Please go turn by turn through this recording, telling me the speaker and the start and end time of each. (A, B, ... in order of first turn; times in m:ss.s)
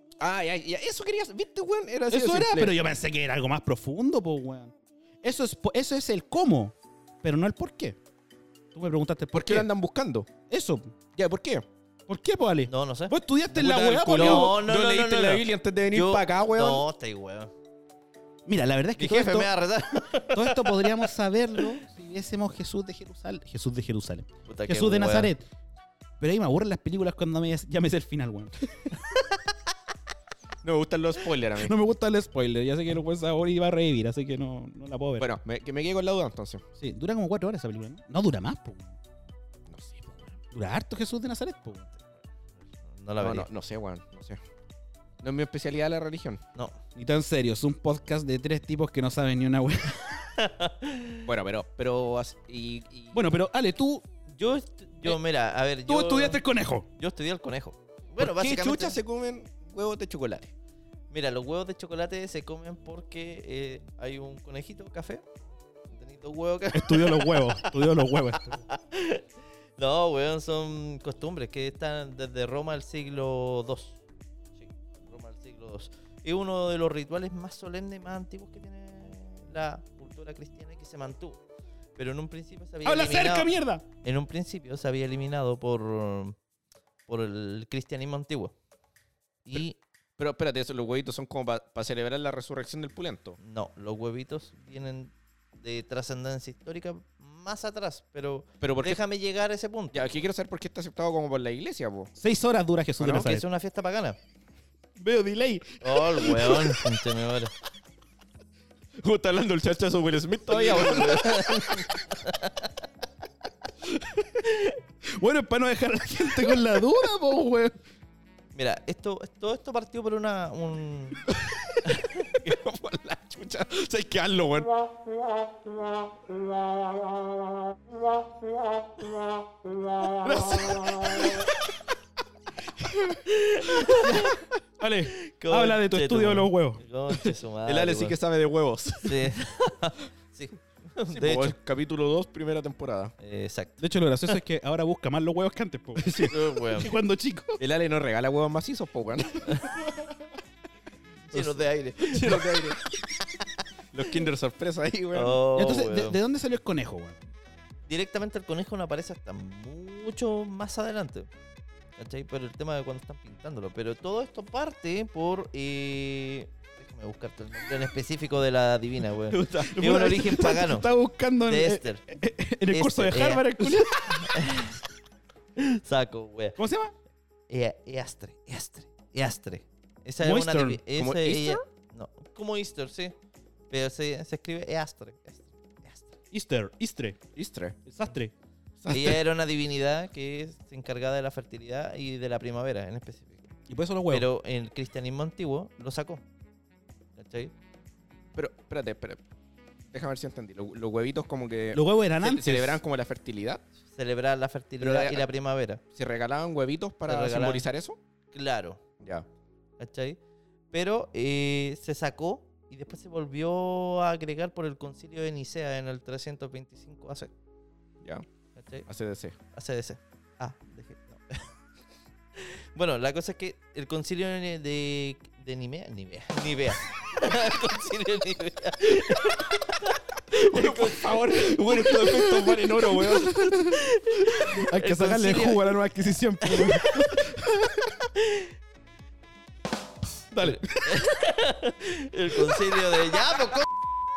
0:00.2-0:02.8 A
0:02.1-0:08.0 B
0:08.7-0:09.7 B
0:09.3-0:10.3 A
0:10.5-0:10.9 B
0:11.2-0:11.7 A
0:12.1-0:14.6 B
0:12.7-0:13.2 C
0:13.5-0:16.8 A
0:14.1-0:17.5 C
0:18.5-0:25.4 B
0:19.0-0:21.7 C
0:24.5-0:25.3 C
0:26.2-0:28.9 B
0:30.6-0:31.7 A
0:31.6-0:35.3 B
0:35.2-0:36.6 A
0:36.8-0:39.0 B
0:39.7-0:40.4 A
0:40.5-0:41.9 B
0:42.9-0:43.5 C
0:43.2-0:44.4 A
0:45.2-0:46.4 A
0:47.0-0:50.2 B
0:50.4-0:51.2 C
0:51.2-0:53.2 A
0:53.1-0:54.0 B
0:54.3-0:56.4 C
0:55.9-0:56.9 B
0:57.0-0:59.0 C
0:58.2-1:00.5 A
1:01.1-1:05.2 C
1:05.9-1:07.7 C
1:06.7-1:08.6 B
1:08.4-1:09.2 C
1:09.8-1:14.0 C
1:14.6-1:21.4 C
1:22.0-1:23.5 C
1:22.8-1:23.8 B
1:24.0-1:26.4 C
1:27.1-1:28.5 C
1:29.4-1:29.8 C
1:30.2-1:33.4 A
1:33.4-1:40.1 C
1:38.6-1:39.0 A
1:39.9-1:42.1 A
1:42.2-1:43.5 B
1:43.0-1:43.3 A
1:43.0-1:44.2 C
1:45.0-1:46.8 B
1:45.8-1:47.5 C
1:49.0-1:51.9 A
1:50.5-1:52.6 C
1:53.8-1:54.5 B
1:55.1-1:57.8 B
1:58.5-2:01.3 C
2:02.3-2:04.7 A
2:10.2-2:11.3 B
2:13.3-2:14.4 C
2:13.7-2:16.8 B
2:15.1-2:18.2 C
2:17.7-2:19.4 A
2:19.0-2:21.6 C
2:21.1-2:23.1 A
2:23.2-2:24.4 C
2:23.8-2:27.6 B
2:26.0-2:26.3 A
2:26.2-2:26.9 C
2:27.6-2:29.7 A
2:29.5-2:30.1 B
2:31.3-2:32.7 C
2:32.0-2:32.8 A
2:33.9-2:35.4 A
2:35.1-2:36.2 C
2:35.6-2:37.2 B
2:37.9-2:41.3 C
2:42.0-2:50.9 C
2:49.3-2:54.4 B
2:51.4-2:52.1 C
2:52.7-2:54.8 C
2:55.6-2:56.6 C
2:56.6-2:56.9 B
2:57.5-3:03.1 C
3:00.2-3:00.8 B
3:01.0-3:01.6 A
3:03.7-3:06.2 C
3:06.3-3:07.2 B
3:07.4-3:07.8 A
3:07.8-3:08.3 B
3:08.8-3:09.2 A
3:08.9-3:13.5 C
3:13.7-3:14.3 B
3:14.1-3:16.2 C
3:17.2-3:17.5 C
3:18.4-3:19.2 A
3:19.9-3:23.6 A
3:21.7-3:22.8 B
3:23.9-3:25.8 C
3:24.8-3:25.3 A
3:25.9-3:28.0 A
3:27.1-3:27.7 C
3:28.3-3:28.8 C
3:29.0-3:29.3 A
3:29.8-3:30.2 C
3:30.7-3:37.3 C
3:38.6-3:38.9 C
3:38.9-3:39.4 A
3:39.5-3:41.5 C
3:42.4-3:52.3 C
3:50.3-3:53.6 A
3:52.9-3:58.0 B
3:53.7-3:55.8 C
3:56.4-3:57.1 C
3:58.2-3:58.5 C
4:00.4-4:01.1 B
4:00.4-4:03.7 C